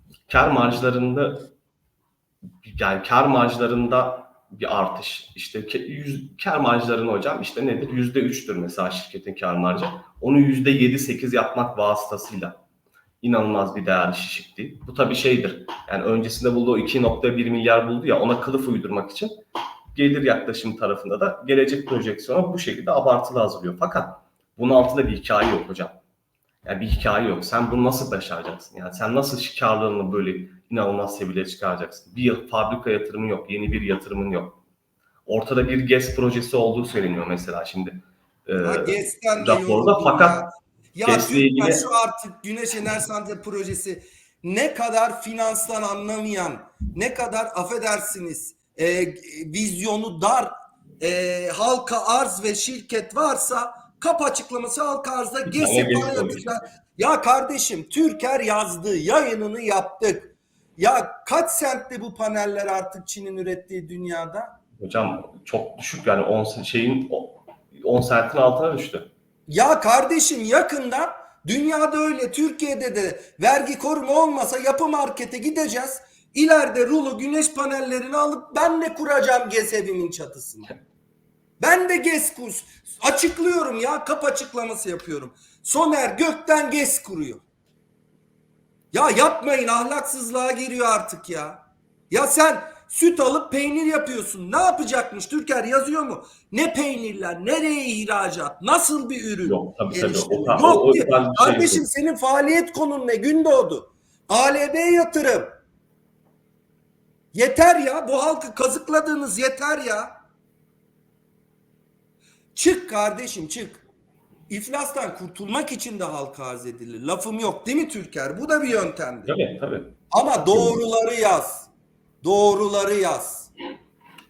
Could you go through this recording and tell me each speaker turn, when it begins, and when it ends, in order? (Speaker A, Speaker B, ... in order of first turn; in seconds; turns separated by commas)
Speaker A: 0.3-1.5, Speaker A: 2.6-12.6, Speaker A: 13.2-19.3, Speaker A: 19.9-26.0, Speaker A: 26.6-34.6, Speaker A: 35.3-40.4, Speaker B: 38.6-64.6, Speaker A: 41.0-41.8, Speaker A: 55.5-56.5, Speaker A: 64.8-69.1, Speaker B: 69.5-80.7, Speaker B: 81.6-87.4, Speaker B: 88.9-105.5, Speaker A: 99.5-101.8, Speaker B: 107.3-110.1, Speaker B: 112.5-113.8, Speaker B: 114.5-119.4, Speaker A: 119.3-120.0, Speaker B: 120.1-121.7, Speaker A: 120.5-120.8, Speaker B: 122.2-123.5